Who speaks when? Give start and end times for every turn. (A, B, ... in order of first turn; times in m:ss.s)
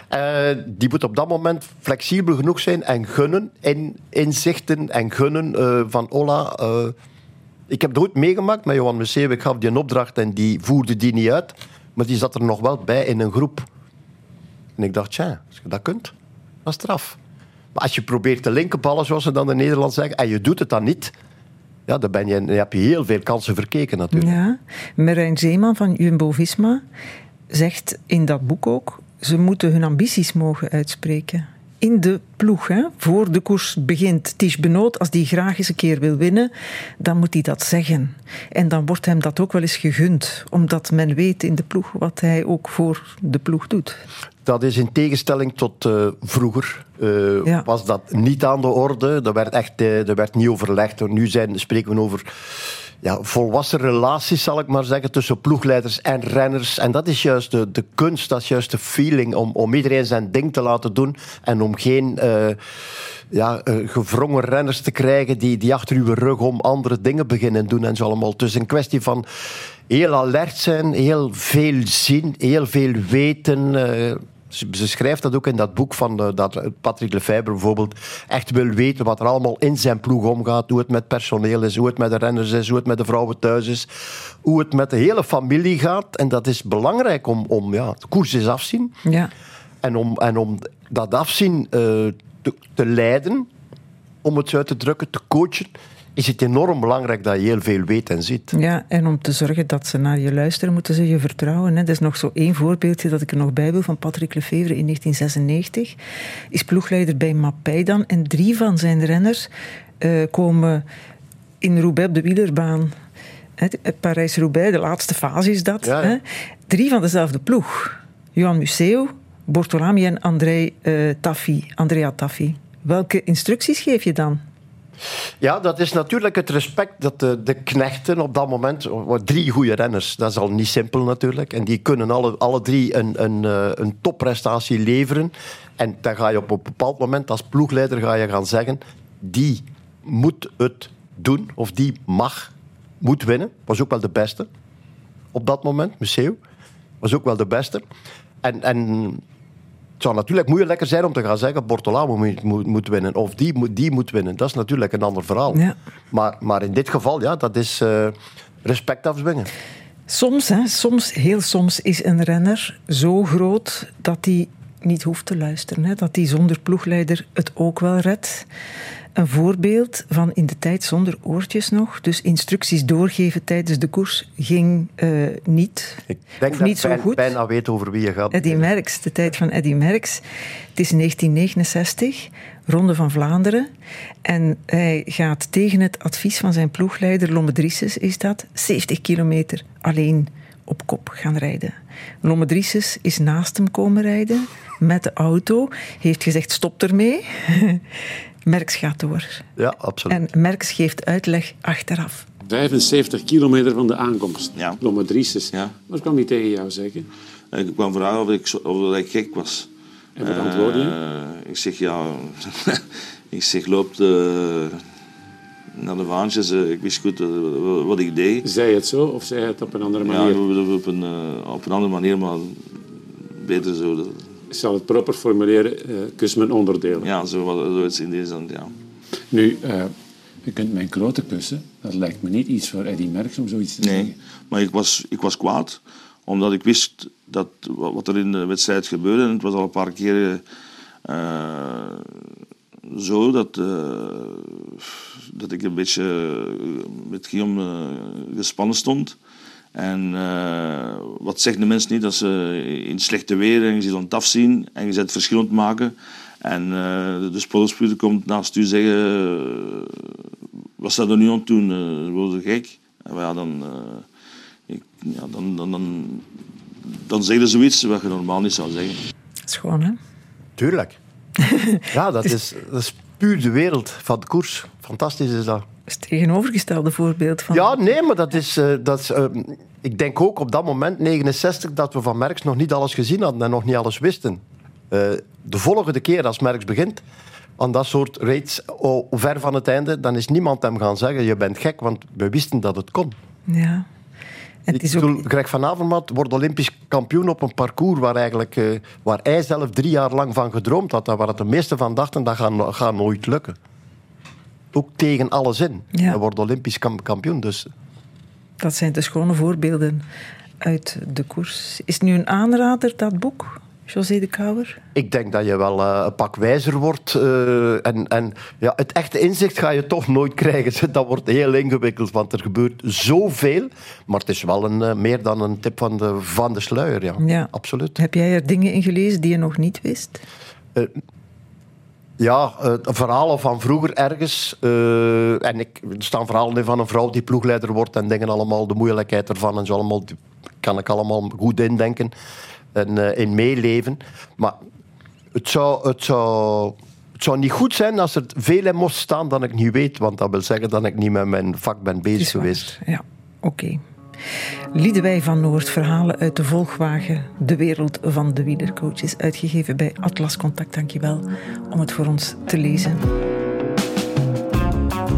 0:00.1-0:06.9 A
0:07.7-0:13.7 A
0:14.8-0:17.2 A
0:17.7-0:21.1 A
0:21.9-0:24.4 A
0:24.1-0:26.8 B
0:27.5-0:44.0 B
0:44.4-0:52.3 A
0:53.0-1:02.6 A
1:03.3-1:09.2 A
1:09.9-1:23.9 A
1:24.4-1:29.0 A
1:29.0-1:29.3 B
1:29.8-1:33.5 A
1:34.2-1:38.5 A
1:38.5-1:46.0 B
1:46.5-1:49.5 B
1:50.0-1:50.8 B
1:51.6-1:52.9 B
1:53.6-2:04.4 B
1:55.8-1:56.2 A
2:05.4-2:24.5 A
2:25.3-2:26.4 A
2:27.0-2:27.8 A
2:28.4-2:29.2 A
2:30.0-2:39.5 A
2:40.1-2:48.4 B
2:49.2-2:57.3 B
2:56.1-2:58.6 A
2:58.3-3:00.2 B
3:00.8-3:03.7 B
3:04.2-3:17.8 B
3:18.4-3:19.5 B
3:19.6-3:20.2 A
3:20.1-3:22.2 B
3:22.4-3:27.1 C
3:27.5-3:29.7 D
3:30.2-3:31.0 C
3:30.2-3:34.8 D
3:35.8-3:38.4 D
3:38.4-3:40.4 C
3:40.0-3:42.8 D
3:43.4-3:44.2 D
3:44.5-3:47.1 C
3:47.0-3:48.7 D
3:49.3-3:49.9 C
3:50.4-3:54.1 C
3:53.8-4:00.4 D
4:01.0-4:02.1 D
4:02.9-4:09.2 D
4:09.7-4:20.1 D
4:20.8-4:24.1 D
4:24.7-4:26.3 D
4:26.9-4:29.0 D
4:29.5-4:30.0 B
4:30.6-4:31.0 A
4:31.4-4:31.8 B
4:31.9-4:35.6 A
4:35.9-4:37.8 B
4:37.5-4:47.0 A
4:47.6-4:53.2 A
4:53.5-4:53.9 B
4:54.6-4:55.2 B
4:54.7-5:03.6 A
5:04.7-5:07.7 A
5:08.6-5:10.0 B
5:10.6-5:14.8 B
5:14.9-5:28.0 A
5:27.2-5:30.2 B
5:32.2-5:42.1 A
5:42.7-5:44.6 A
5:45.3-5:52.7 A
5:52.2-5:53.8 B
5:54.7-6:03.0 B